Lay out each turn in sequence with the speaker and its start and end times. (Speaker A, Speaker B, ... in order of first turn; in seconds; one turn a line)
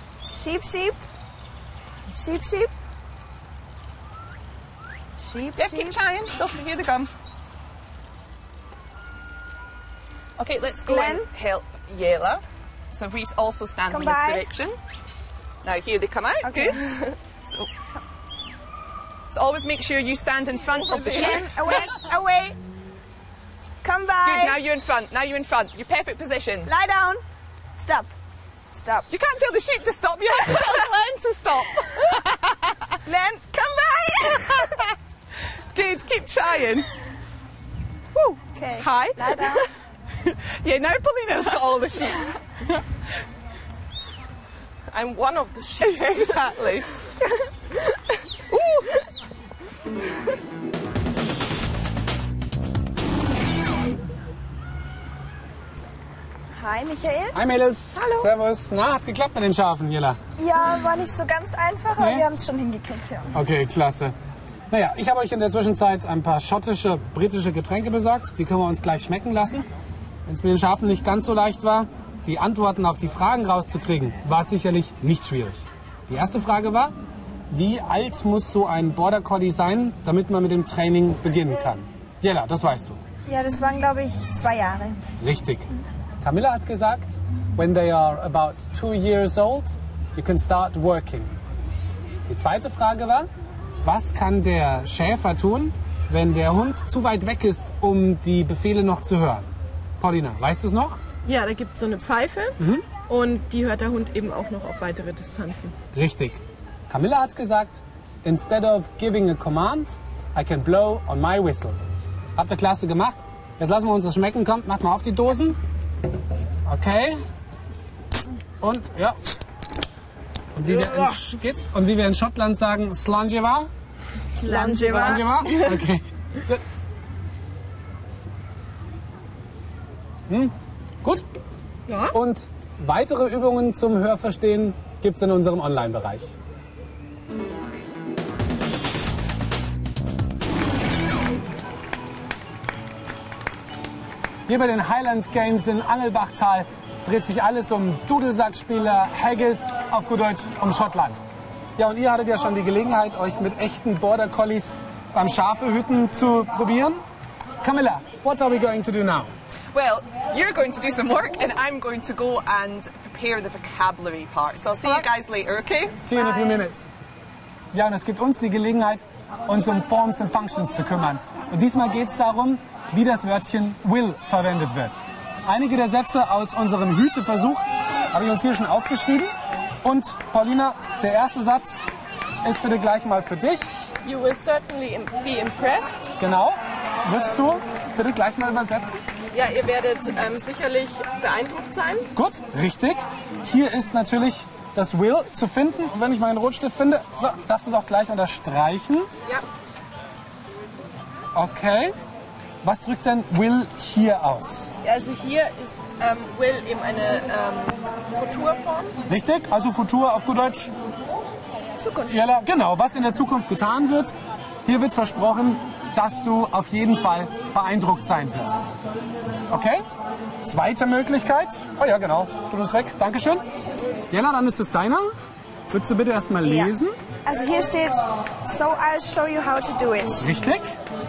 Speaker A: 0.2-1.0
Speaker A: 2.1-2.7
Speaker A: 5.2-6.0
Speaker B: 5.5-7.1
Speaker B: 10.4-14.8
Speaker A: 10.8-11.3
Speaker A: 13.9-14.4
Speaker B: 15.6-17.7
Speaker A: 16.4-16.9
Speaker B: 19.3-21.9
Speaker A: 20.9-22.6
Speaker A: 23.8-24.6
Speaker B: 24.2-26.7
Speaker A: 26.6-27.2
Speaker A: 27.8-28.1
Speaker A: 28.7-29.1
Speaker B: 29.1-32.8
Speaker A: 33.0-34.8
Speaker B: 34.5-34.7
Speaker B: 35.7-36.9
Speaker A: 38.2-39.7
Speaker B: 38.8-39.4
Speaker B: 40.2-42.4
Speaker C: 44.9-46.4
Speaker B: 45.8-47.0
Speaker A: 56.5-57.4
Speaker D: 57.3-60.2
Speaker A: 58.0-58.3
Speaker A: 60.4-63.3
Speaker D: 62.0-62.2
Speaker D: 63.3-64.1
Speaker D: 64.7-69.7
Speaker D: 70.2-76.9
Speaker D: 77.5-83.0
Speaker A: 83.2-85.0
Speaker D: 85.2-85.7
Speaker D: 86.2-91.3
Speaker D: 92.3-93.3
Speaker D: 93.8-101.0
Speaker C: 101.2-105.7
Speaker D: 102.6-102.9
Speaker D: 105.9-111.8
Speaker D: 112.3-115.6
Speaker D: 116.7-117.2
Speaker D: 118.6-119.2
Speaker D: 120.5-123.7
Speaker C: 124.3-125.0
Speaker A: 124.3-125.3
Speaker D: 124.7-126.6
Speaker D: 130.3-131.2
Speaker C: 131.9-132.1
Speaker D: 132.1-136.3
Speaker D: 144.5-151.2
Speaker D: 151.8-157.0
Speaker D: 157.6-159.3
Speaker B: 159.7-166.0
Speaker D: 166.0-166.8
Speaker C: 166.1-166.7
Speaker D: 167.7-181.8
Speaker D: 182.4-183.9
Speaker C: 184.0-186.0
Speaker D: 186.2-189.0
Speaker C: 189.3-192.1
Speaker D: 192.1-199.1
Speaker D: 201.3-201.9
Speaker D: 202.6-204.7
Speaker C: 204.8-208.9
Speaker D: 209.1-210.7
Speaker A: 211.8-212.2
Speaker D: 212.1-214.1
Speaker D: 214.6-218.7
Speaker D: 219.5-219.8
Speaker D: 220.4-223.4
Speaker D: 224.1-225.1
Speaker D: 225.7-227.0
Speaker A: 226.4-230.3
Speaker D: 230.2-230.7